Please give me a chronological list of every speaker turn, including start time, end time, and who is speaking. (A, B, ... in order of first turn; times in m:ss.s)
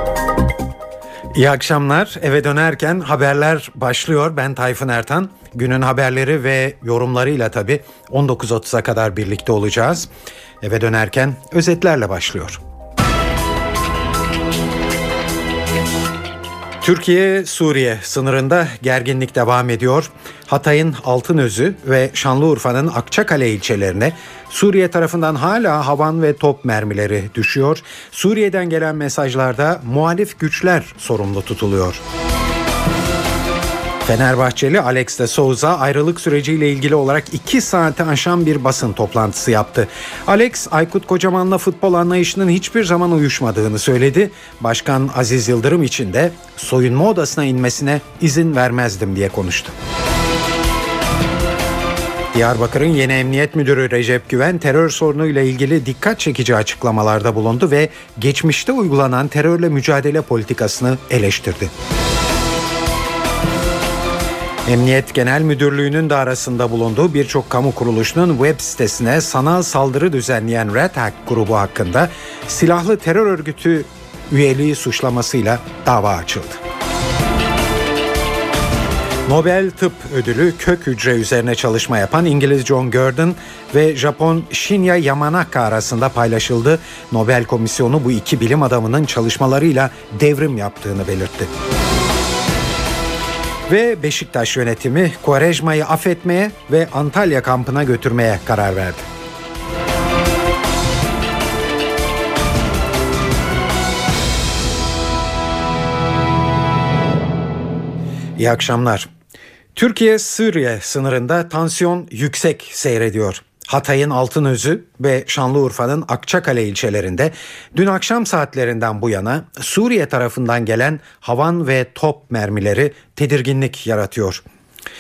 0:01.3-0:10.1 A
0:10.6-0:12.6 A
0:16.8-0:32.0 A
0:34.0-0:49.7 A
0:52.3-1:01.7 A
1:04.6-1:16.6 A
1:19.2-1:31.5 A
1:33.7-1:39.1 A
1:48.4-1:49.1 A
1:49.7-2:04.4 A